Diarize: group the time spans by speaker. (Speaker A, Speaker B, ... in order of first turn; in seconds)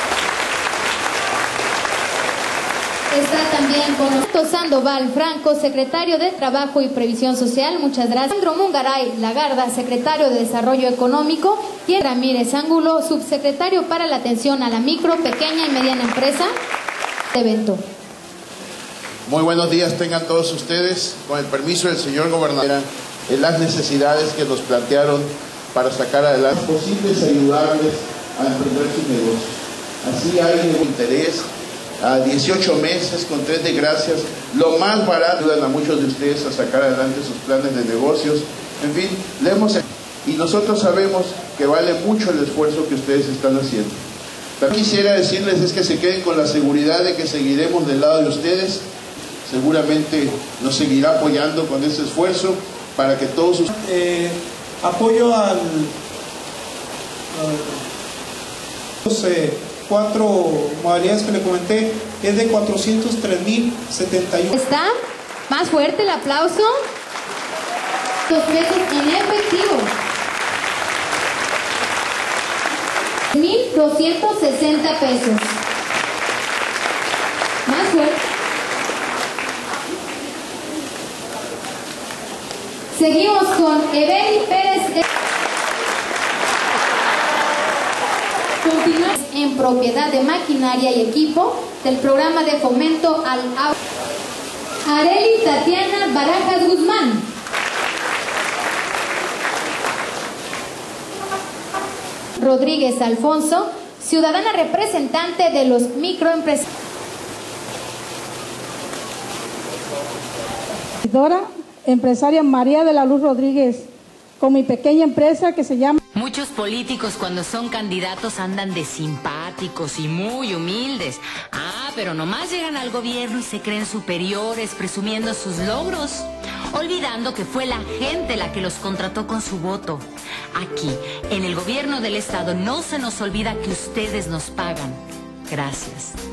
Speaker A: 3.1-16.5, 17.3-17.8, 64.5-64.9, 65.5-66.7, 68.3-69.9, 73.3-75.5, 77.7-78.2, 82.9-85.0, 88.6-93.7, 94.8-97.2, 102.4-106.7
Speaker B: 19.3-31.5, 32.0-44.0, 44.6-48.8, 49.4-53.7
Speaker C: 53.7-55.9, 57.3-57.8, 59.0-64.5
Speaker D: 111.0-113.8, 114.4-116.0
Speaker E: 116.1-136.2